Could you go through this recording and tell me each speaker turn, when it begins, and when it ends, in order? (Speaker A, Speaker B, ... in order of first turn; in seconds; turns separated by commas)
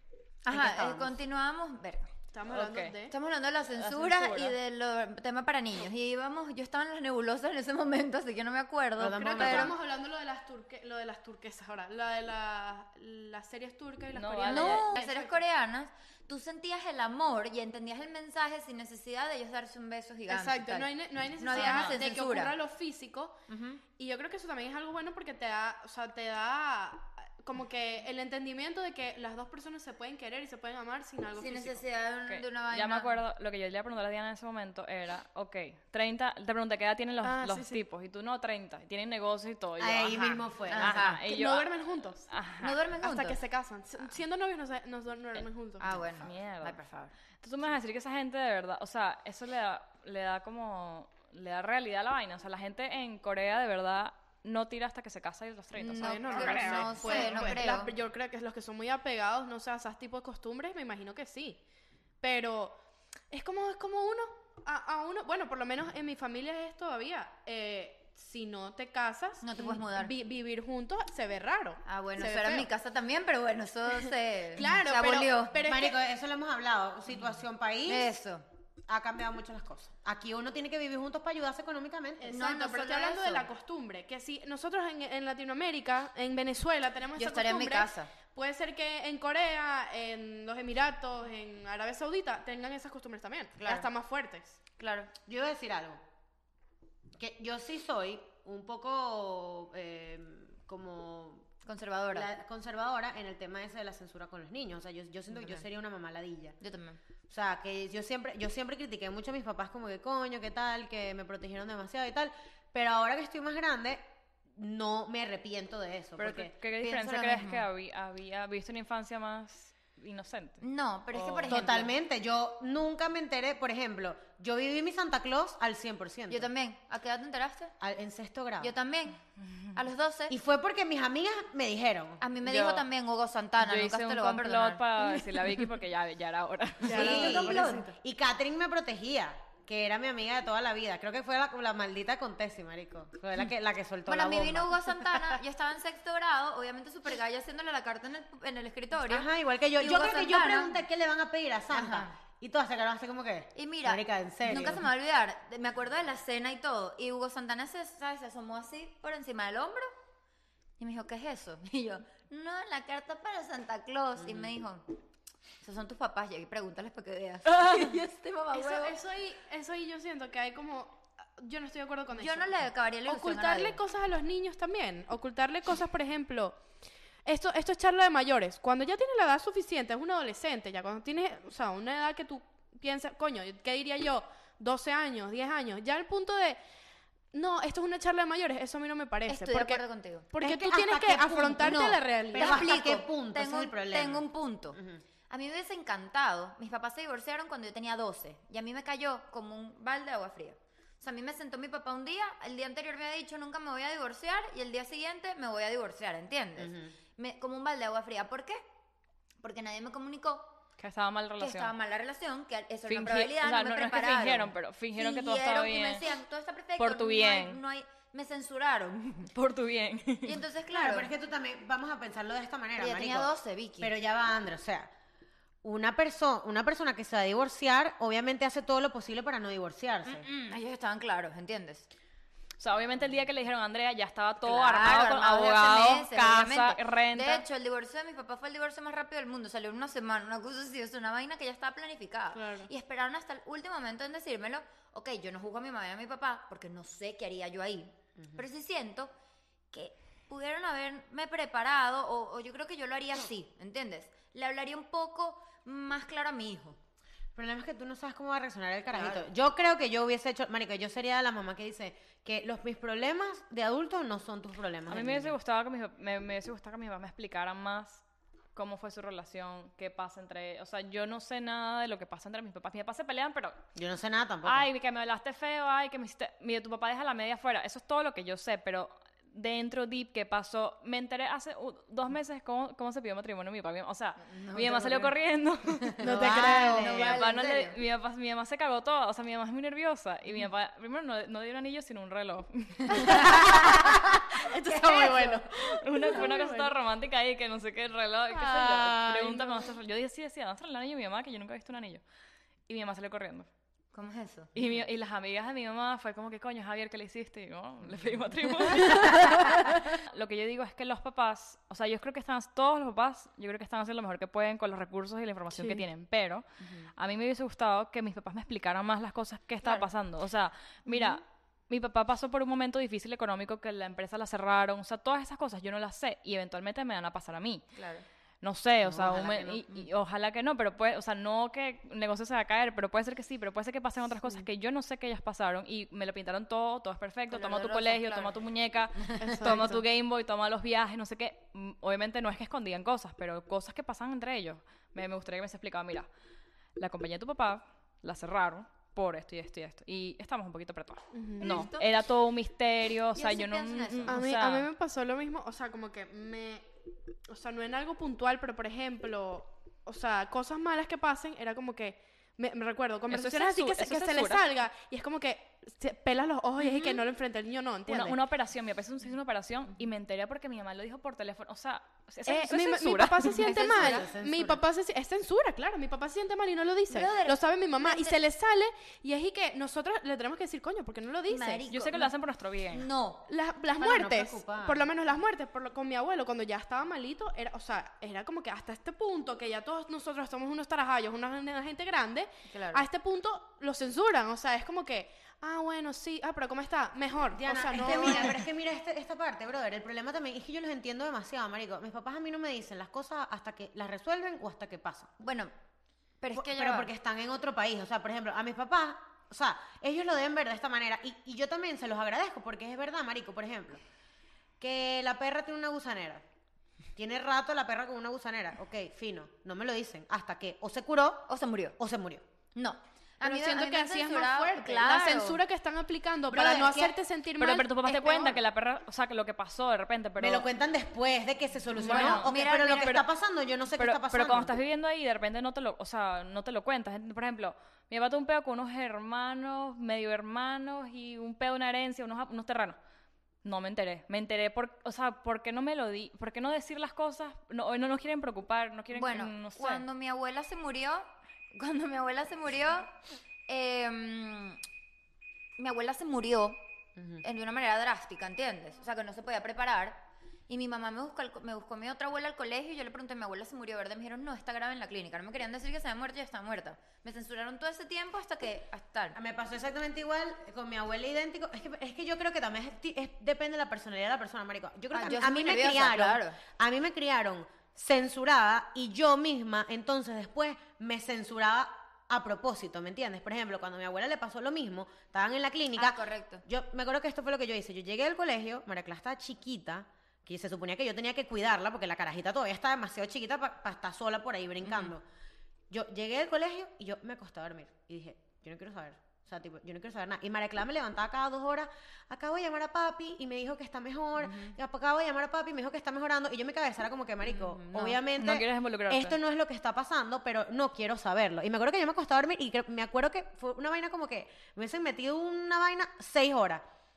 Speaker A: 0.5-2.1, Speaker B: 0.5-1.2, Speaker C: 2.3-3.1, Speaker D: 2.5-3.0, Speaker A: 3.1-9.7, Speaker D: 3.8-4.6, Speaker B: 9.0-9.8, Speaker C: 9.1-15.4, Speaker D: 14.2-14.9, Speaker A: 14.5-22.5, Speaker C: 20.3-23.4, Speaker D: 21.5-22.0, Speaker A: 23.5-23.8, Speaker C: 24.0-31.8, Speaker A: 31.4-33.2, Speaker D: 32.3-41.7, Speaker C: 37.2-37.8, Speaker B: 39.8-41.0, Speaker A: 40.7-41.2, Speaker C: 41.3-42.3, Speaker D: 42.3-42.8, Speaker A: 42.6-43.4, Speaker C: 43.0-46.0, Speaker A: 45.8-47.1, Speaker D: 46.0-46.8, Speaker D: 47.4-57.5, Speaker A: 55.8-57.9, Speaker C: 56.0-61.6, Speaker B: 56.5-57.4, Speaker C: 62.2-62.8, Speaker C: 63.3-72.7, Speaker A: 69.4-70.1, Speaker A: 71.8-75.6, Speaker C: 74.0-76.0, Speaker B: 75.6-78.1, Speaker A: 77.9-78.5, Speaker B: 78.9-82.3, Speaker C: 82.2-94.6, Speaker A: 82.3-83.5, Speaker A: 87.2-88.1, Speaker A: 94.8-95.1, Speaker B: 95.2-96.0, Speaker B: 97.2-101.5, Speaker A: 101.6-102.3, Speaker B: 102.1-106.6, Speaker A: 105.4-105.6, Speaker A: 106.6-107.0, Speaker B: 107.3-116.5, Speaker D: 116.2-120.6, Speaker A: 116.8-117.7, Speaker A: 120.6-122.0, Speaker D: 121.1-121.7, Speaker B: 121.5-126.5, Speaker A: 126.3-127.7, Speaker B: 127.8-128.7, Speaker A: 128.6-129.2, Speaker A: 129.7-130.3, Speaker B: 130.3-132.2, Speaker A: 132.2-134.8, Speaker D: 132.4-132.9, Speaker D: 133.6-137.4, Speaker C: 136.8-138.0, Speaker B: 136.8-144.9, Speaker A: 136.9-137.8, Speaker A: 144.1-150.8, Speaker B: 149.1-154.9, Speaker A: 151.7-152.2, Speaker A: 153.6-159.9, Speaker A: 160.8-164.9, Speaker B: 164.2-164.5, Speaker A: 165.6-169.0, Speaker C: 168.5-176.6, Speaker A: 172.1-173.8, Speaker C: 177.2-186.6, Speaker C: 187.3-192.7, Speaker A: 189.3-190.3, Speaker B: 190.4-195.0, Speaker A: 191.6-194.8, Speaker A: 195.3-208.7, Speaker B: 206.6-206.9, Speaker A: 209.4-210.6, Speaker D: 210.8-211.7, Speaker A: 211.4-219.3, Speaker D: 212.9-216.1, Speaker D: 216.8-217.6, Speaker D: 219.3-220.4, Speaker A: 220.2-221.1, Speaker B: 220.7-224.9, Speaker A: 222.8-223.9, Speaker B: 225.6-230.3, Speaker A: 230.1-231.9, Speaker D: 232.6-237.5, Speaker A: 234.4-249.1, Speaker C: 242.3-242.7, Speaker A: 249.7-256.8, Speaker B: 257.4-265.4, Speaker A: 258.9-259.3, Speaker D: 264.9-268.0, Speaker D: 268.6-273.6, Speaker B: 273.8-274.7, Speaker D: 274.4-293.7, Speaker A: 284.2-285.1, Speaker A: 285.9-287.8, Speaker C: 286.0-286.9, Speaker B: 286.0-287.2, Speaker C: 292.9-296.7, Speaker A: 294.8-295.4, Speaker D: 295.6-302.0, Speaker C: 298.7-299.7, Speaker D: 302.7-303.5, Speaker A: 303.9-304.5, Speaker D: 304.6-316.4, Speaker A: 309.0-309.8, Speaker D: 317.0-327.7, Speaker A: 327.8-328.1, Speaker D: 328.4-346.1, Speaker B: 328.8-329.4, Speaker A: 329.0-329.9, Speaker A: 337.3-338.4, Speaker A: 339.0-339.7, Speaker C: 339.2-339.8, Speaker D: 346.8-354.7, Speaker C: 351.1-351.7, Speaker A: 351.4-351.9, Speaker A: 353.1-354.2, Speaker C: 354.1-356.7, Speaker C: 357.3-368.2, Speaker D: 363.1-364.4, Speaker A: 366.6-367.0, Speaker D: 367.9-373.5, Speaker C: 372.3-381.6, Speaker A: 373.4-374.1, Speaker B: 373.7-374.6, Speaker A: 376.9-378.2, Speaker A: 381.3-382.1, Speaker D: 381.7-382.9, Speaker A: 382.7-383.3, Speaker C: 383.3-398.4, Speaker B: 383.8-384.9, Speaker A: 392.5-392.9, Speaker B: 397.4-405.1, Speaker A: 397.7-398.4, Speaker A: 405.2-405.5, Speaker A: 406.2-406.9, Speaker B: 406.3-413.8, Speaker B: 414.6-416.2, Speaker B: 417.0-422.2, Speaker A: 421.3-421.8, Speaker A: 422.6-425.4, Speaker C: 423.2-428.4, Speaker B: 426.3-426.9, Speaker D: 427.4-430.5, Speaker B: 430.2-434.6, Speaker D: 431.8-433.0, Speaker A: 431.8-433.0, Speaker D: 433.8-442.8, Speaker D: 443.4-449.9, Speaker A: 448.9-452.9, Speaker A: 453.5-454.6, Speaker A: 455.6-456.6, Speaker B: 457.0-457.2, Speaker A: 457.2-469.2, Speaker B: 469.1-495.0, Speaker A: 474.9-476.4, Speaker A: 485.8-486.4, Speaker A: 494.7-494.9, Speaker B: 495.7-516.6, Speaker A: 504.2-504.6, Speaker A: 507.3-508.0, Speaker D: 508.1-509.2